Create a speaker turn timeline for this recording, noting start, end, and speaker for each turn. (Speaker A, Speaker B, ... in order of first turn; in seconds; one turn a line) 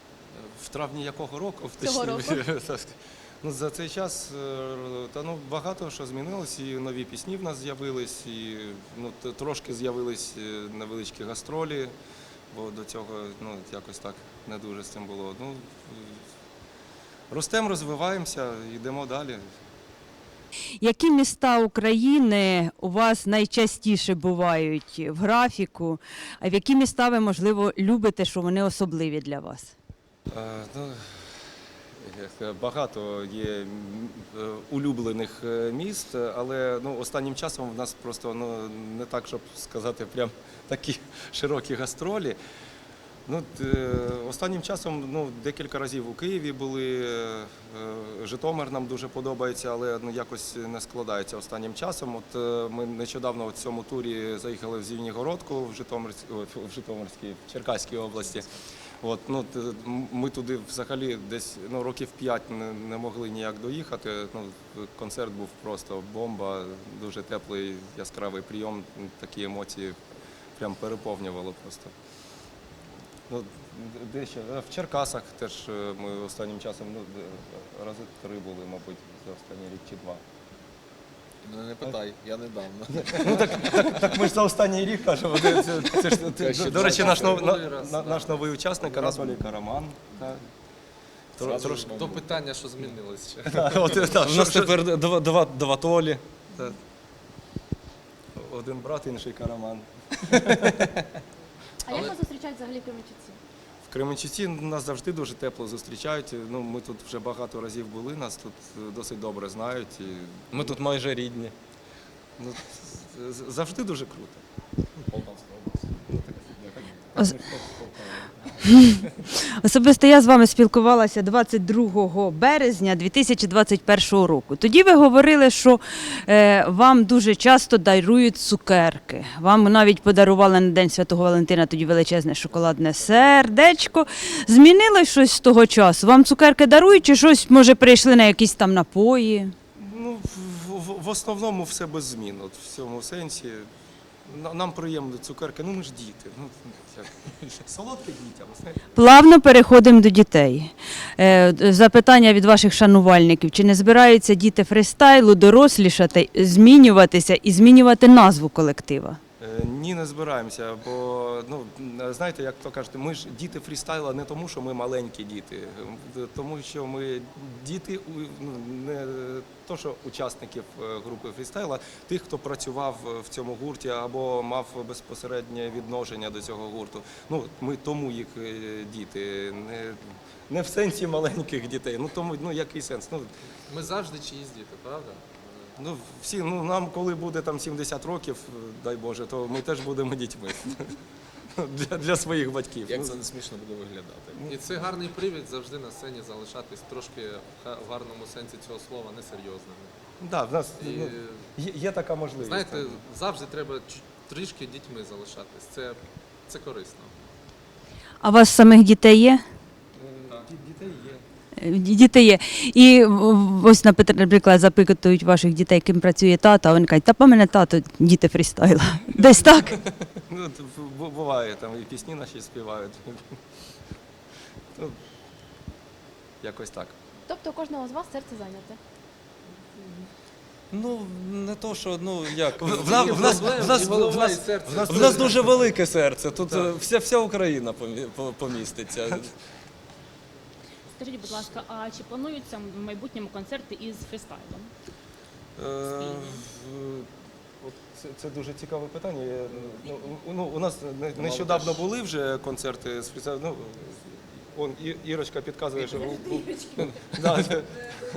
Speaker A: 0.3-11.9
Speaker B: 1.8-2.4
Speaker A: 12.5-16.2
Speaker A: 17.3-19.4
Speaker C: 20.8-29.7
Speaker A: 30.3-31.2
Speaker A: 31.9-42.4
Speaker A: 43.3-58.5
Speaker A: 59.0-70.0
Speaker A: 70.6-71.9
Speaker A: 73.3-80.2
Speaker D: 81.4-84.1
Speaker A: 82.9-90.5
Speaker D: 86.2-87.6
Speaker E: 86.7-88.8
Speaker A: 91.4-92.0
Speaker D: 91.4-92.4
Speaker E: 91.4-94.2
Speaker A: 93.5-94.9
Speaker F: 94.2-96.2
Speaker A: 98.3-100.9
Speaker B: 101.8-103.4
Speaker E: 101.9-102.2
Speaker A: 103.8-110.8
Speaker F: 110.5-111.5
Speaker A: 112.4-114.4
Speaker D: 115.0-117.2
Speaker D: 117.8-118.6
Speaker C: 118.6-139.5
Speaker A: 139.8-143.7
Speaker A: 144.3-149.0
Speaker C: 148.9-159.2
Speaker A: 159.4-183.3
Speaker E: 183.7-185.8
Speaker A: 185.8-191.0
Speaker A: 191.6-193.2
Speaker D: 192.8-194.5
Speaker E: 194.5-200.0
Speaker A: 200.2-203.0
Speaker E: 200.8-201.5
Speaker E: 202.4-207.3
Speaker C: 208.2-209.4
Speaker A: 210.0-211.2
Speaker C: 211.6-219.8
Speaker A: 220.3-223.3
Speaker A: 226.4-226.9
Speaker B: 227.3-228.8
Speaker F: 230.7-239.3
Speaker A: 232.6-235.5
Speaker E: 232.7-235.5
Speaker A: 236.4-236.8
Speaker G: 240.9-244.7
Speaker A: 245.6-247.1
Speaker G: 245.8-246.4
Speaker A: 247.6-257.9
Speaker D: 251.2-251.8